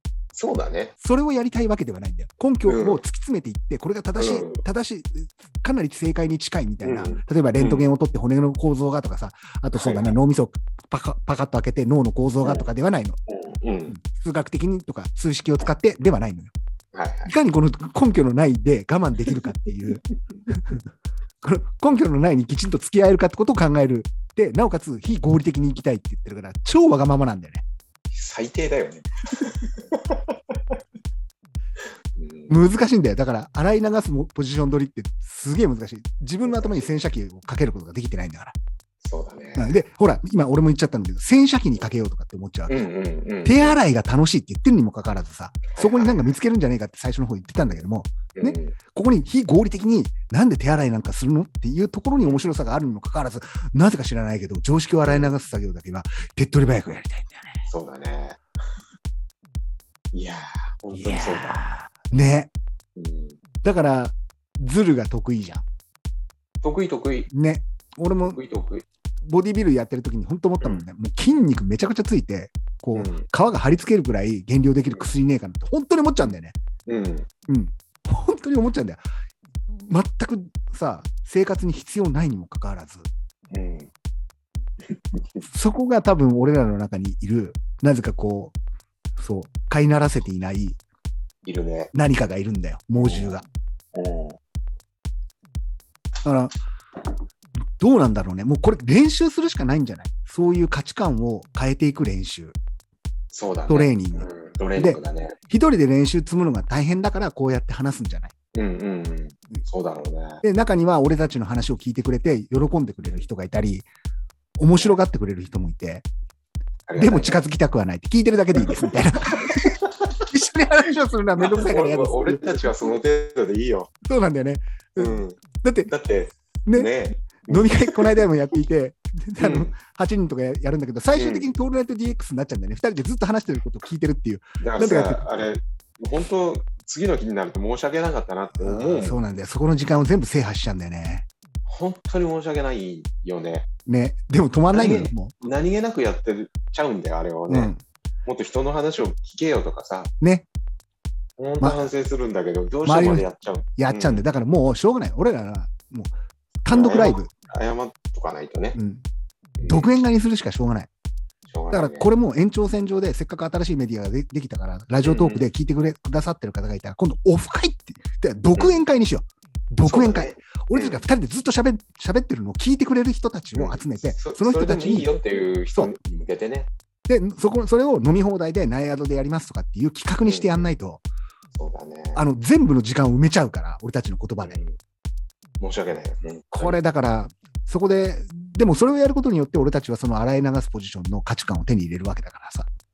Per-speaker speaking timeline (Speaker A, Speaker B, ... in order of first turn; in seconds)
Speaker A: 0.3-0.9, 2.7-3.0, 4.2-4.6, 6.8-7.9, 9.7-10.2, 13.3-13.9, 16.9-17.4, 28.1-30.6, 32.2-32.6, 36.4-37.1, 39.0-39.8, 42.7-43.8, 45.7-46.4, 48.4-48.8, 55.0-55.3, 57.7-58.4, 60.1-61.6, 63.0-63.4, 66.6-67.3, 68.2-68.8, 72.9-73.3, 76.9-77.3, 83.5-83.9, 85.0-85.4, 91.4-91.9, 92.9-93.4, 93.9-94.4, 103.3-105.4, 108.5-110.4, 113.0-113.3, 116.9-117.4, 119.4-120.1, 121.4-123.9, 125.0-128.2, 129.4-129.8, 131.1-131.5, 134.6-139.2, 141.7-143.7, 144.7-147.7, 148.2-150.1, 151.4-154.2, 156.7-158.8, 159.6-160.0, 161.5-162.1, 165.0-165.5, 168.6-168.8, 169.8-171.1, 173.5-176.7, 180.2-180.7, 181.6-182.2, 184.4-184.8, 185.6-186.8
Speaker B: 1.0-13.2, 13.9-16.5, 17.2-20.8, 21.4-27.6, 32.5-38.5, 39.5-42.9, 43.4-57.6, 60.9-62.5, 63.6-65.6, 67.3-68.4, 69.2-76.6, 77.5-79.0, 79.7-83.1, 85.5-88.5, 89.2-90.8, 91.9-93.4, 96.2-96.5, 97.8-102.6, 103.7-108.3, 110.4-113.9, 114.6-116.0, 117.0-119.7, 120.2-123.0, 124.0-125.9, 127.4-135.2, 138.6-141.2, 143.9-145.3, 147.5-147.8, 150.2-150.4, 152.8-157.3, 158.8-159.1, 159.7-160.9, 161.7-175.1, 177.1-181.1, 182.1-184.6, 186.6-192.7